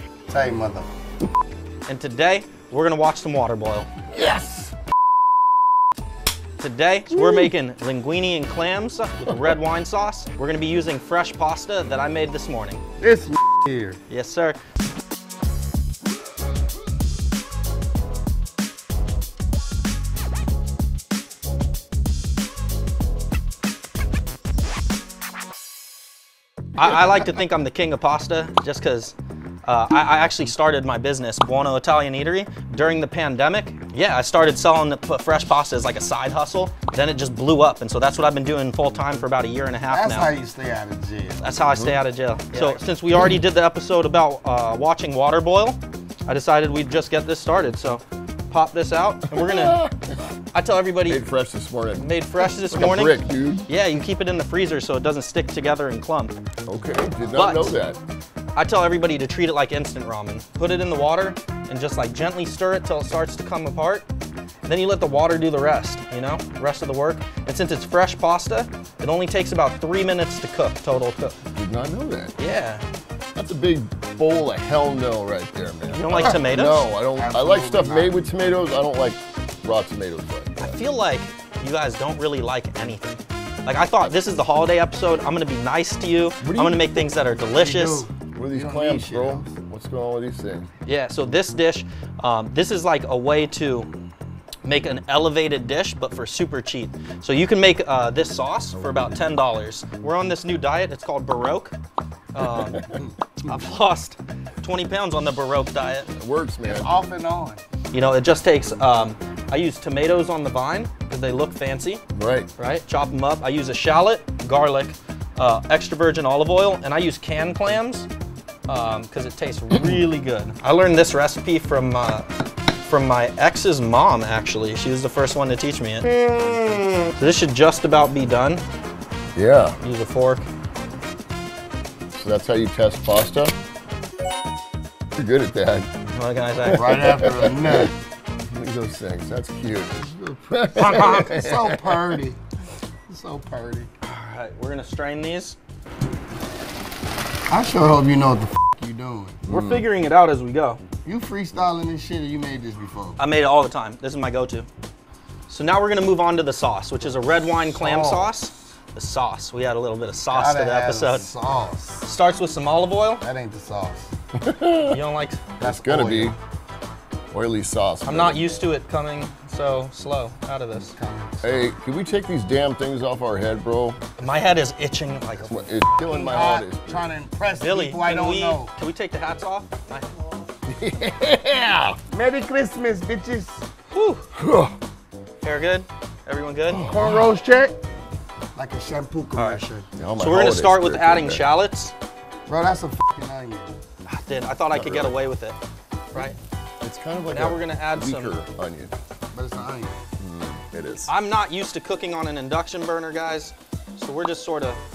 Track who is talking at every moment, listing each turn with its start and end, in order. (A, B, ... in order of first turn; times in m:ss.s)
0:00.3-0:00.9 A
0:01.9-0:03.9 B
0:04.1-0:04.7 C
0:06.6-0:12.8 B
0:07.2-0:07.5 C
0:13.0-0:14.0 A
0:14.1-0:14.6 B
0:26.8-0:40.3 B
0:39.9-0:41.5 A
0:41.4-0:49.8 B
0:41.7-0:42.0 C
0:49.3-0:50.1 C
0:50.5-0:51.2 B
0:51.1-0:53.7 C
0:52.0-0:56.4 B
0:56.7-0:58.0 C
0:57.3-0:57.7 B
0:58.5-1:04.0 B
1:04.6-1:11.3 B
1:11.5-1:12.3 C
1:12.4-1:12.8 B
1:13.3-1:20.8 C
1:15.8-1:16.9 B
1:17.1-1:18.2 A
1:20.6-1:28.0 B
1:26.4-1:27.0 C
1:27.5-1:29.5 A
1:28.3-1:30.7 C
1:30.8-1:33.9 B
1:34.6-1:41.7 B
1:38.7-1:39.2 C
1:42.3-1:46.1 B
1:42.4-1:42.8 C
1:46.1-1:46.9 C
1:46.6-1:47.6 A
1:47.9-1:52.0 B
1:52.1-1:52.5 C
1:52.6-1:58.1 B
1:58.7-2:02.3 B
2:02.8-2:06.1 B
2:07.2-2:08.6 B
2:09.3-2:09.8 C
2:09.8-2:10.4 B
2:12.1-2:13.5 C
2:15.2-2:15.9 C
2:16.1-2:17.0 B
2:16.7-2:17.9 A
2:16.7-2:17.9 C
2:18.5-2:22.2 C
2:20.4-2:22.4 A
2:20.8-2:21.6 B
2:23.1-2:23.9 A
2:24.0-2:25.6 B
2:27.5-2:29.4 A
2:29.5-2:29.8 C
2:29.5-2:30.8 B
2:31.0-2:33.2 A
2:33.2-2:34.7 B
2:35.5-2:41.3 B
2:37.7-2:38.3 A
2:40.3-2:42.0 A
2:42.0-2:43.2 B
2:43.2-2:44.1 A
2:44.3-2:45.0 C
2:44.8-2:45.4 B
2:45.6-2:46.4 C
2:45.6-2:46.4 A
2:47.3-2:48.4 C
2:48.0-2:50.9 B
2:51.0-2:51.7 A
2:51.4-2:54.0 C
2:54.2-2:55.5 B
2:55.4-2:57.1 C
2:56.0-2:58.7 A
2:57.6-3:00.1 B
3:00.6-3:02.0 C
3:02.1-3:03.6 A
3:03.9-3:04.2 B
3:04.3-3:04.7 C
3:05.4-3:06.8 B
3:06.7-3:07.4 C
3:06.8-3:07.7 A
3:08.5-3:09.9 A
3:09.4-3:09.6 B
3:10.0-3:11.5 C
3:10.2-3:11.9 B
3:12.5-3:13.7 A
3:14.0-3:15.6 B
3:14.7-3:15.2 C
3:16.1-3:18.9 C
3:17.3-3:18.3 B
3:19.3-3:19.9 A
3:20.2-3:21.1 C
3:21.1-3:24.8 B